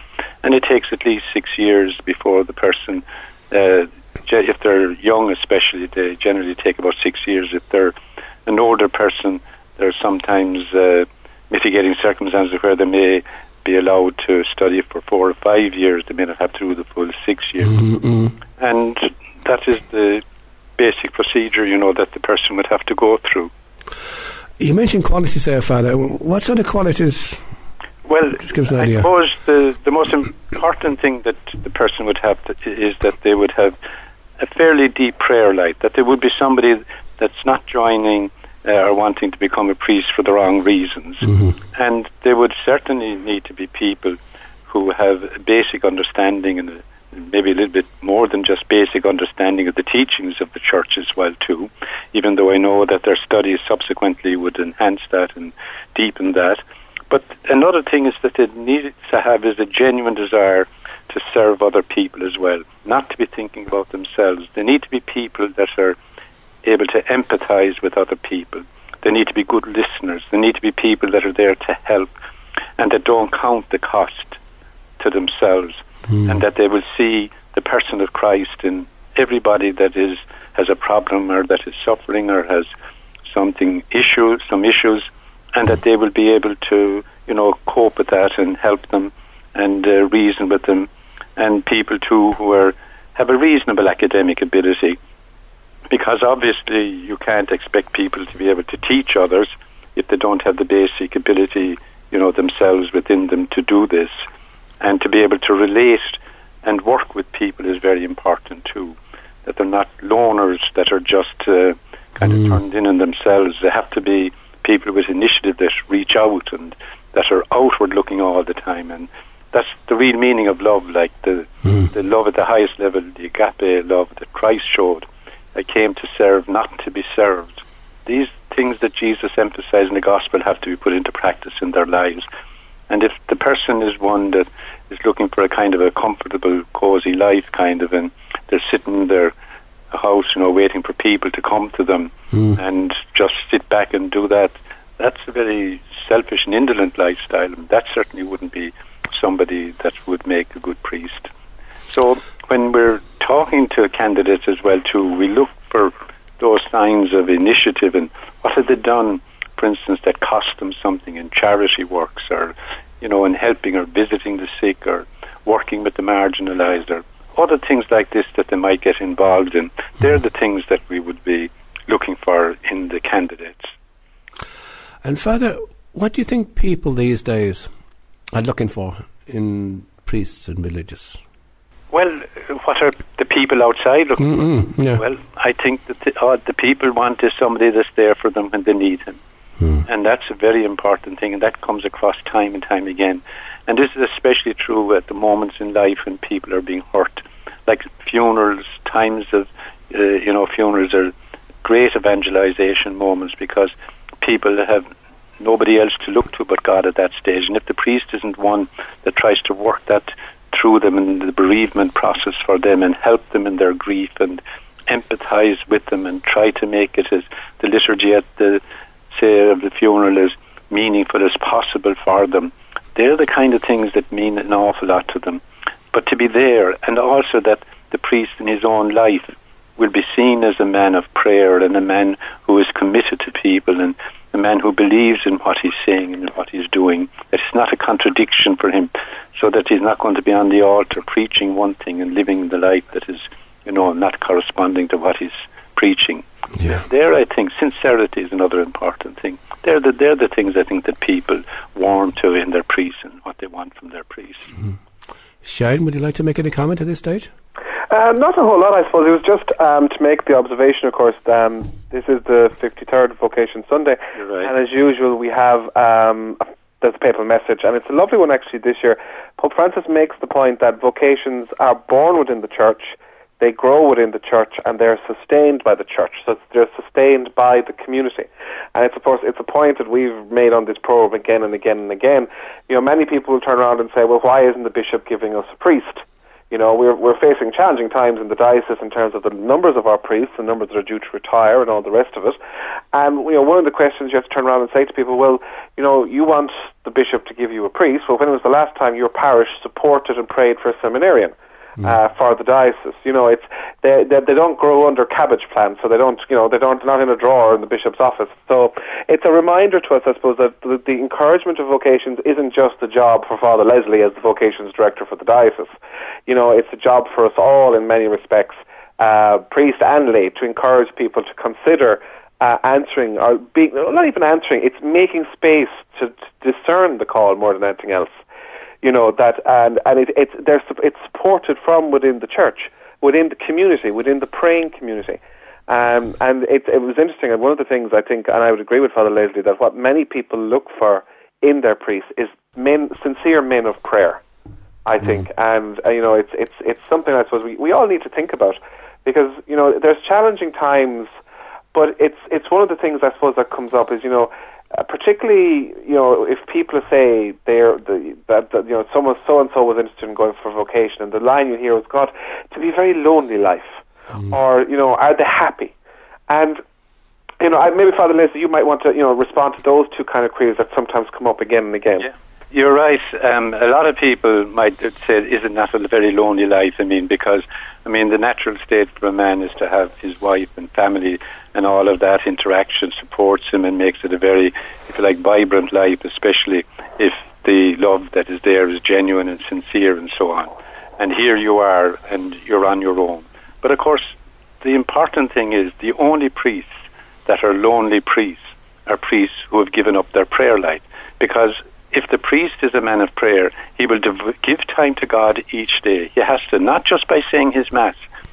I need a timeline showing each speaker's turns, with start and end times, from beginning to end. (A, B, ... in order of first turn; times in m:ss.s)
0:00.4-0:08.0 A
0:08.5-0:17.8 A
0:17.7-0:18.4 B
0:18.6-0:20.2 A
0:20.8-0:23.5 A
0:24.6-0:27.4 B
0:28.1-0:33.8 A
0:28.5-0:29.1 B
0:34.4-0:44.2 A
0:44.7-1:06.0 A
1:06.6-1:12.1 A
1:12.8-1:14.4 A
1:15.0-1:22.7 A
1:23.3-1:35.0 A
1:35.9-1:44.2 A
1:44.8-2:12.3 A
2:12.9-2:19.3 A
2:19.9-2:31.3 A
2:31.9-2:53.7 A
2:55.0-2:57.7 B
2:58.3-3:01.2 B
3:01.9-3:09.2 A
3:04.2-3:05.0 B
3:09.6-3:09.8 B
3:09.8-3:24.9 A
3:25.4-4:14.5 A
4:15.4-4:17.3 B
4:17.9-4:52.4 C
4:24.2-4:24.5 A
4:52.9-5:15.7 C
5:16.3-5:28.2 C
5:28.8-5:44.2 C
5:44.9-5:51.1 C
5:51.7-6:05.7 C
6:06.3-6:06.6 C
6:07.4-6:12.1 C
6:12.0-6:48.1 A